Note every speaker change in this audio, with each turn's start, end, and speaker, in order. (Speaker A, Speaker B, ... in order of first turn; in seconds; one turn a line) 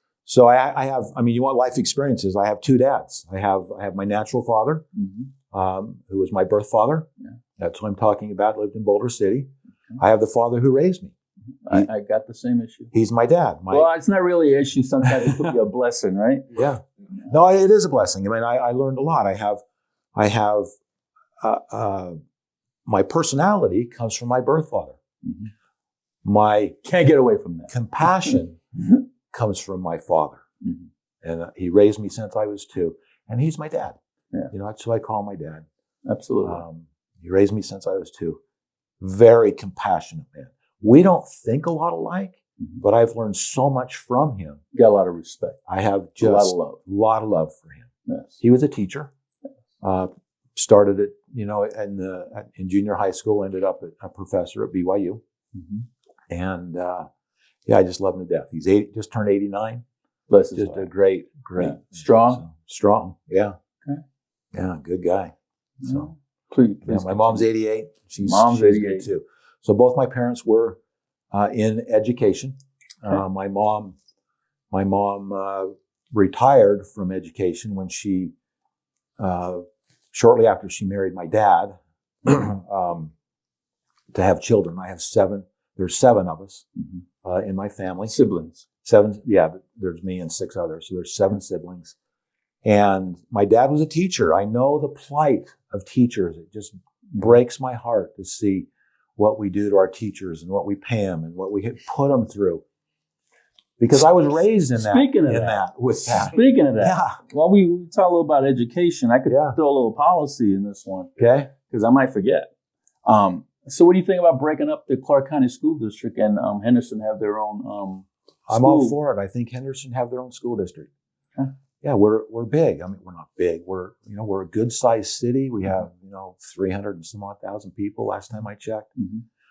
Speaker A: 0.2-4.8
Speaker B: 4.9-5.3
Speaker A: 5.5-7.1
Speaker A: 7.6-11.1
Speaker B: 11.6-12.9
Speaker A: 12.9-13.9
Speaker B: 13.7-16.5
Speaker A: 16.5-19.6
Speaker A: 20.1-20.7
Speaker A: 21.4-22.2
Speaker A: 22.9-25.0
Speaker B: 25.2-25.5
Speaker A: 26.2-26.8
Speaker B: 26.8-28.3
Speaker A: 27.7-28.6
Speaker A: 29.3-30.4
Speaker B: 30.6-30.9
Speaker A: 31.2-34.0
Speaker A: 34.5-35.6
Speaker B: 36.0-36.6
Speaker A: 36.4-38.4
Speaker A: 39.0-44.6
Speaker B: 44.7-45.6
Speaker A: 45.7-47.9
Speaker B: 46.2-46.8
Speaker B: 48.1-48.4
Speaker A: 48.4-49.1
Speaker A: 49.8-55.2
Speaker B: 55.5-55.8
Speaker A: 56.3-57.1
Speaker A: 57.6-59.8
Speaker B: 60.3-60.9
Speaker A: 60.5-63.5
Speaker B: 61.6-62.4
Speaker A: 64.5-65.3
Speaker B: 65.8-67.4
Speaker A: 65.8-66.1
Speaker A: 66.8-70.8
Speaker B: 68.2-69.1
Speaker A: 71.3-74.0
Speaker A: 74.7-78.3
Speaker A: 79.2-83.1
Speaker A: 84.1-86.6
Speaker A: 87.2-88.1
Speaker B: 88.0-88.7
Speaker A: 88.8-91.9
Speaker A: 92.6-102.6
Speaker A: 103.8-107.2
Speaker B: 104.8-112.5
Speaker A: 109.3-109.6
Speaker A: 111.2-111.5
Speaker B: 113.0-118.9
Speaker A: 118.5-120.9
Speaker A: 121.8-128.9
Speaker B: 129.0-129.2